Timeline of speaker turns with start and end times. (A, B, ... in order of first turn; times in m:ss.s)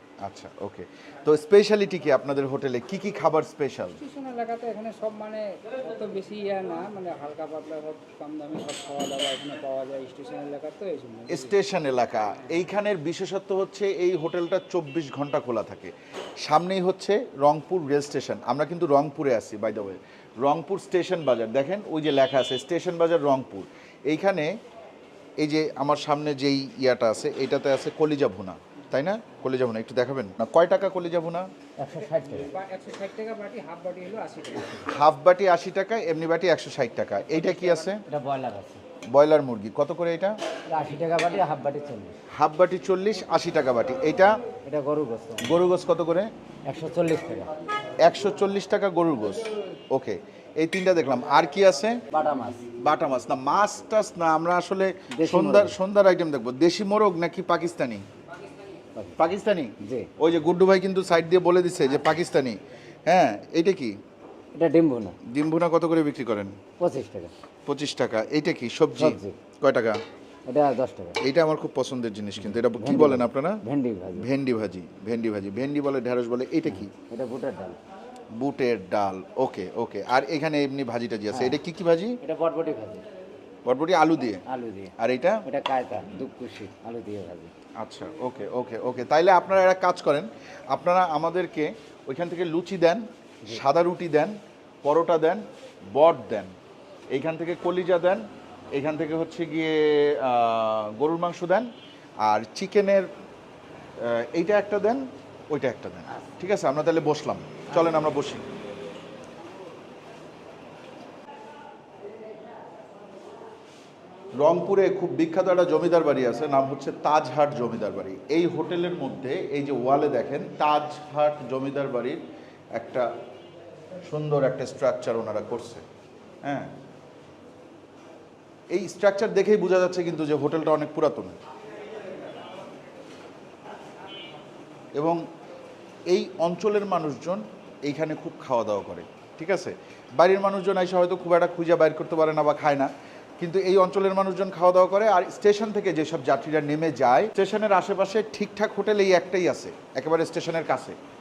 0:00.2-0:04.0 A
0:04.0-0:11.4 B
0:11.3-0:15.9 A
0:16.4-0:24.5 A
0:25.4-0:31.5 A
0:31.8-0:32.6 C
0:32.5-0:34.8 B
0:34.8-0:38.0 A
0:37.4-0:38.8 C
0:39.1-0:40.4 A
0:40.7-0:42.2 C
0:42.3-0:44.4 A
0:44.6-0:45.5 C
0:45.4-0:46.3 A
0:46.6-0:47.5 C
0:48.0-0:52.0 A
0:52.1-0:52.7 C
0:52.8-0:58.0 A
0:55.1-0:55.8 C
0:59.2-1:04.0 A
0:59.8-1:00.1 C
1:04.5-1:05.2 C
1:05.2-1:06.6 A
1:06.8-1:07.3 C
1:07.7-1:10.0 A
1:09.0-1:09.4 C
1:10.4-1:11.2 C
1:11.2-1:13.6 A
1:12.4-1:14.3 C
1:14.2-1:16.9 A
1:16.6-1:17.8 C
1:18.3-1:22.2 A
1:21.3-1:21.6 C
1:22.2-1:23.0 C
1:23.6-1:24.4 A
1:24.4-1:27.5 C
1:25.0-1:25.4 A
1:27.8-1:36.5 A
1:37.1-1:41.7 A
1:42.2-1:43.1 A
1:44.0-1:48.5 A
1:46.1-1:46.4 C
1:54.3-2:02.2 A
2:02.8-2:03.1 A
2:04.0-2:05.8 A
2:06.4-2:06.7 A
2:08.7-2:11.4 A
2:15.0-2:15.2 A
2:16.1-2:31.0 A